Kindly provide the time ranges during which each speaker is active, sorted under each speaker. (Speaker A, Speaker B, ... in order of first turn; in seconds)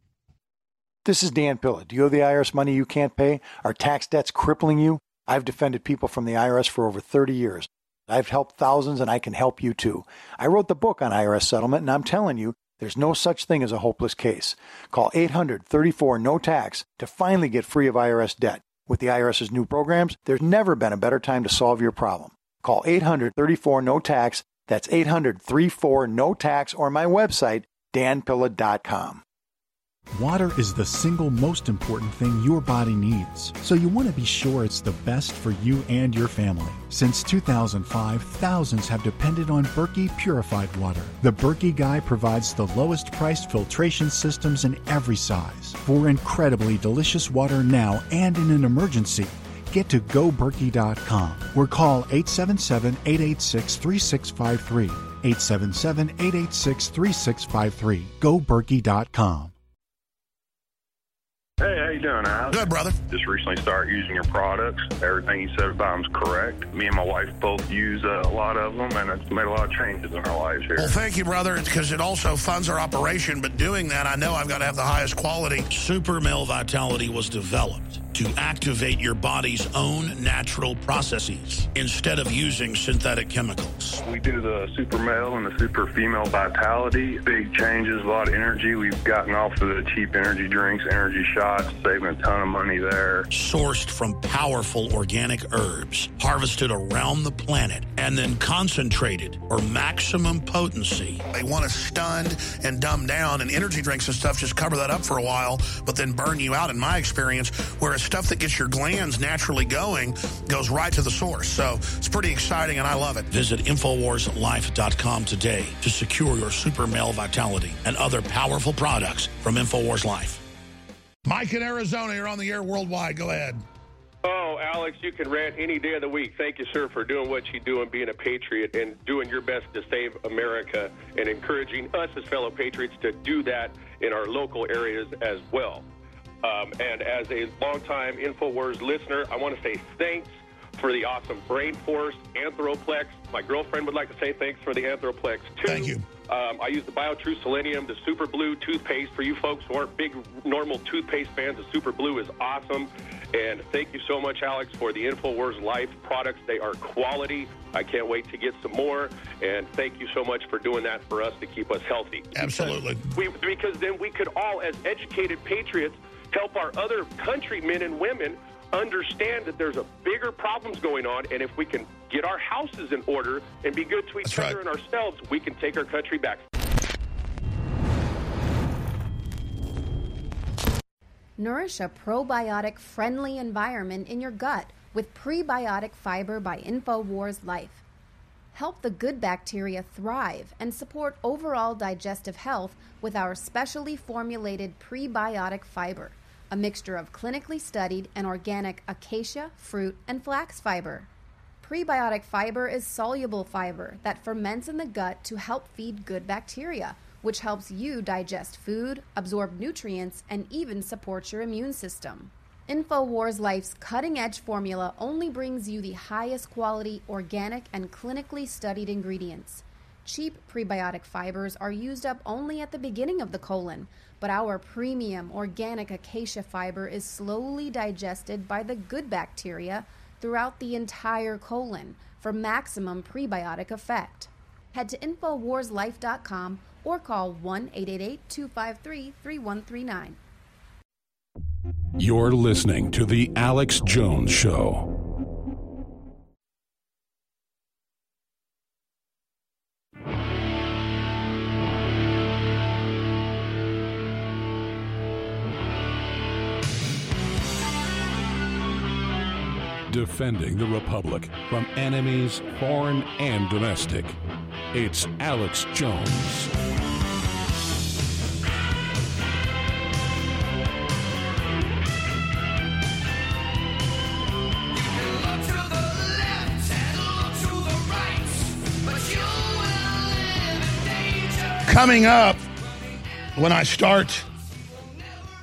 Speaker A: 1.1-29.2
Speaker B: 30.1-59.5
Speaker C: 61.6-62.5, 63.1-71.0, 84.0-93.3
Speaker D: 62.5-63.0, 70.8-84.0, 93.3-120.4, 121.2-123.6, 145.6-146.1, 162.3-163.0, 174.2-174.6, 281.6-282.4, 283.4-284.3
Speaker E: 124.2-135.8, 136.4-176.4
Speaker F: 181.4-187.8, 188.5-201.1, 201.6-240.2
Speaker G: 242.0-244.9, 259.9-264.2, 264.7-266.5